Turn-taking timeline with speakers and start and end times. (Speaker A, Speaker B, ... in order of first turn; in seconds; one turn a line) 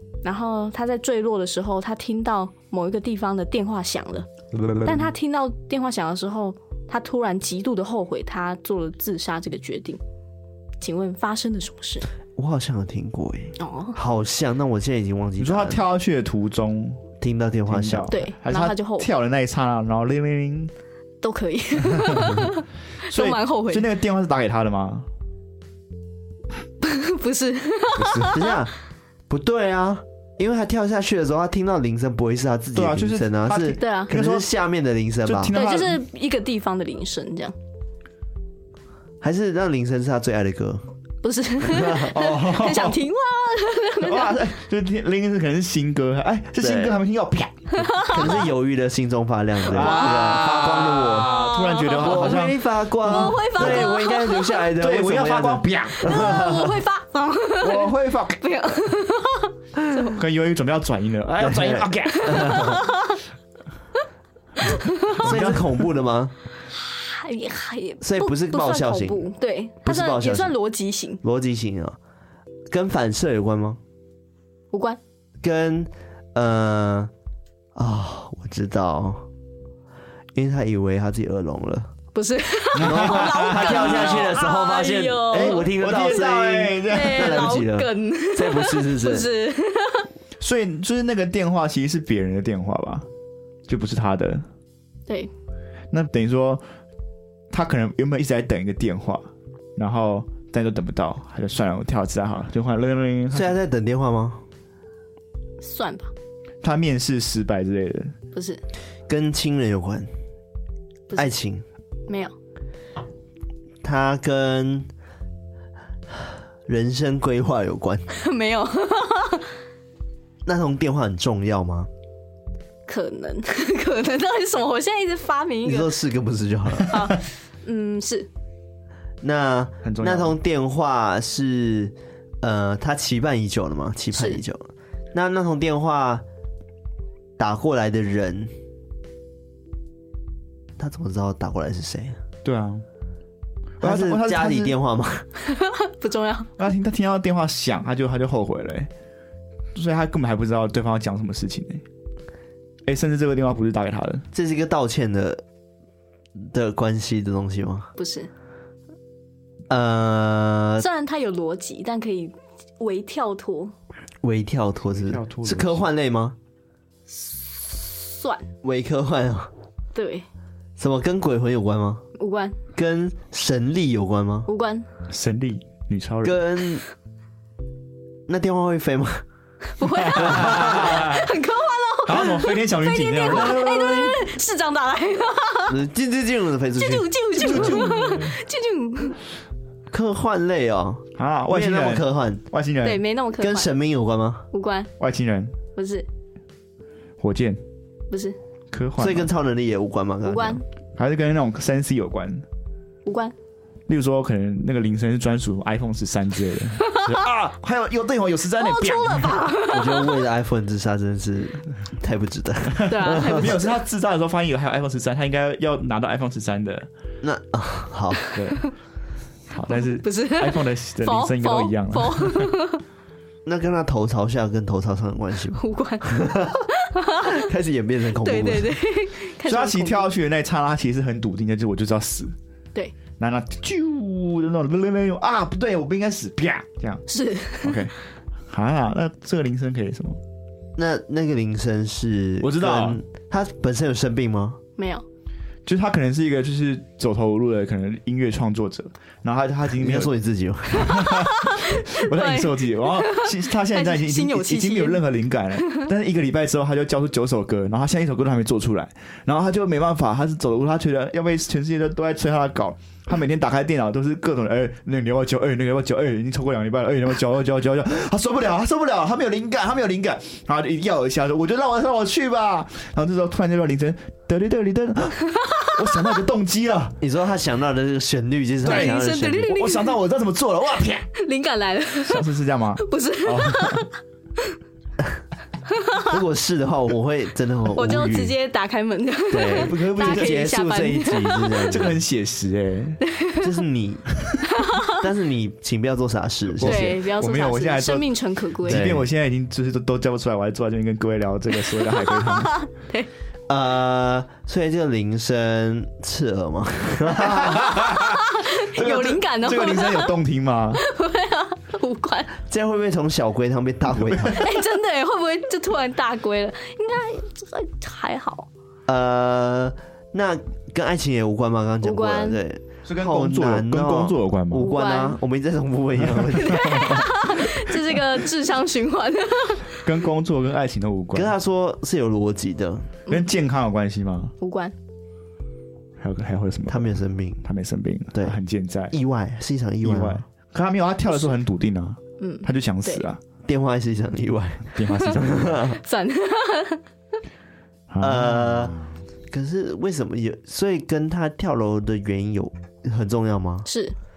Speaker A: 0.2-4.3
Speaker A: 4.8-10.0
Speaker A: 10.8-12.1
Speaker B: 12.4-15.8
Speaker A: 13.6-14.0
Speaker C: 15.4-17.1
Speaker B: 17.2-18.1
Speaker C: 17.7-20.7
Speaker A: 18.1-19.1
Speaker A: 21.2-23.9
Speaker C: 21.9-22.4
Speaker C: 23.1-25.1
Speaker A: 26.8-28.6
Speaker C: 27.9-28.4
Speaker B: 28.3-28.7
Speaker B: 29.3-35.5
Speaker C: 32.7-34.5
Speaker A: 33.8-34.1
Speaker C: 35.2-36.0
Speaker A: 35.5-37.5
Speaker B: 39.2-40.8
Speaker A: 41.2-44.4
Speaker B: 41.6-42.1
Speaker C: 42.1-43.0
Speaker C: 44.0-48.0
Speaker B: 46.6-47.0
Speaker A: 47.7-48.4
Speaker B: 48.1-51.3
Speaker C: 49.6-54.0
Speaker A: 49.7-50.5
Speaker A: 51.2-52.4
Speaker B: 52.0-56.8
Speaker A: 53.0-54.6
Speaker C: 54.8-56.5
Speaker A: 56.0-60.2
Speaker C: 57.6-58.4
Speaker C: 60.1-62.8
Speaker B: 61.4-62.8
Speaker A: 62.1-63.2
Speaker A: 64.6-65.2
Speaker C: 65.1-65.8
Speaker B: 65.2-66.3
Speaker A: 66.7-71.2
Speaker B: 68.0-69.3
Speaker B: 69.8-70.5
Speaker B: 71.2-72.0
Speaker B: 72.7-73.8
Speaker A: 74.7-75.0
Speaker B: 75.4-77.1
Speaker B: 77.7-79.3
Speaker B: 80.3-81.9
Speaker A: 82.1-85.7
Speaker C: 82.7-84.3
Speaker B: 82.8-89.3
Speaker C: 85.3-87.5
Speaker A: 86.9-90.1
Speaker C: 90.4-93.0
Speaker C: 93.7-94.5
Speaker C: 95.9-96.6
Speaker C: 97.5-99.3
Speaker C: 99.8-103.6
Speaker B: 103.3-104.4
Speaker A: 105.6-106.1
Speaker C: 106.6-108.1
Speaker A: 108.3-108.6
Speaker B: 109.1-110.1
Speaker B: 111.1-111.6
Speaker A: 112.1-112.3
Speaker B: 113.8-114.9
Speaker B: 116.1-118.1
Speaker A: 118.1-119.5
Speaker B: 120.5-121.9
Speaker A: 122.9-125.9
Speaker B: 125.6-127.1
Speaker A: 126.9-128.3
Speaker B: 129.2-136.2
Speaker C: 129.8-130.4
Speaker A: 134.1-134.4
Speaker B: 137.4-138.5
Speaker B: 140.8-142.2
Speaker C: 142.4-142.8
Speaker C: 143.8-144.7
Speaker B: 143.8-145.3
Speaker A: 145.4-146.5
Speaker C: 146.6-148.9
Speaker C: 149.7-151.8
Speaker C: 152.9-154.2
Speaker B: 154.3-155.4
Speaker B: 156.4-157.9
Speaker A: 158.0-158.3
Speaker B: 159.7-160.9
Speaker A: 160.8-163.7
Speaker B: 164.2-166.4
Speaker C: 164.9-165.9
Speaker A: 167.1-168.4
Speaker B: 168.6-169.5
Speaker A: 169.9-170.2
Speaker B: 170.8-172.0
Speaker A: 172.2-172.6
Speaker B: 172.7-174.5
Speaker A: 174.5-174.9
Speaker C: 175.1-176.4
Speaker B: 176.2-176.8
Speaker B: 178.3-179.2
Speaker A: 179.7-185.8
Speaker C: 180.0-181.3
Speaker B: 180.3-180.9
Speaker C: 182.1-184.2
Speaker B: 185.7-187.8
Speaker A: 186.8-189.2
Speaker C: 187.4-188.4
Speaker B: 189.9-192.4
Speaker C: 191.2-193.0
Speaker A: 192.8-193.7
Speaker B: 193.4-194.4
Speaker A: 194.5-194.9
Speaker C: 195.0-195.5
Speaker A: 195.8-196.1
Speaker C: 197.2-197.6
Speaker A: 198.1-198.4
Speaker C: 198.7-199.3
Speaker B: 199.0-200.6
Speaker A: 200.3-200.6
Speaker C: 201.0-202.4
Speaker A: 203.1-203.3
Speaker C: 203.9-209.5
Speaker A: 208.6-210.2
Speaker B: 209.7-213.6
Speaker C: 212.7-216.9
Speaker A: 212.8-213.7
Speaker B: 217.2-218.2
Speaker A: 218.2-218.7
Speaker C: 218.3-218.7
Speaker C: 219.5-222.5
Speaker A: 219.7-222.8
Speaker B: 223.4-226.7
Speaker A: 225.6-227.4
Speaker B: 227.2-228.8
Speaker A: 228.2-230.1
Speaker C: 229.4-232.3
Speaker C: 233.2-237.0
Speaker A: 237.1-237.8
Speaker C: 237.6-237.9
Speaker C: 238.5-240.2
Speaker B: 240.8-244.6
Speaker C: 242.4-243.0
Speaker A: 244.8-245.1
Speaker C: 245.7-250.1
Speaker B: 249.8-250.9
Speaker A: 250.8-255.0
Speaker C: 250.8-276.9
Speaker A: 275.4-275.7
Speaker B: 277.0-279.6
Speaker A: 278.6-279.9
Speaker C: 278.6-281.1
Speaker A: 281.1-282.3
Speaker C: 282.1-283.9
Speaker A: 282.8-284.6
Speaker A: 285.7-286.1
Speaker B: 286.0-288.3
Speaker A: 287.7-291.8
Speaker B: 289.3-292.0
Speaker C: 289.5-290.9
Speaker C: 291.7-293.0
Speaker A: 293.0-293.5
Speaker B: 293.4-294.1
Speaker A: 294.4-295.0
Speaker B: 294.9-296.9
Speaker C: 296.5-302.6
Speaker A: 296.6-298.9
Speaker B: 298.7-299.1
Speaker A: 301.8-303.1
Speaker B: 303.5-307.8
Speaker C: 307.2-310.8
Speaker A: 307.9-310.1
Speaker A: 310.8-312.3
Speaker B: 312.5-314.4
Speaker C: 314.1-314.4
Speaker A: 314.3-318.5
Speaker B: 318.9-327.0
Speaker A: 321.8-322.4
Speaker C: 322.9-324.7
Speaker A: 324.6-325.2
Speaker C: 326.1-327.1
Speaker A: 326.3-329.7
Speaker C: 329.8-331.3
Speaker B: 331.1-332.9
Speaker C: 333.1-334.3
Speaker A: 334.4-334.7
Speaker C: 336.0-338.9
Speaker B: 336.7-337.4
Speaker B: 338.9-340.2
Speaker C: 339.8-343.2
Speaker A: 342.2-343.1
Speaker B: 343.4-345.8
Speaker C: 344.7-345.7
Speaker A: 345.7-346.8
Speaker C: 347.9-348.9
Speaker B: 348.0-348.7
Speaker B: 349.3-353.7
Speaker A: 353.6-353.9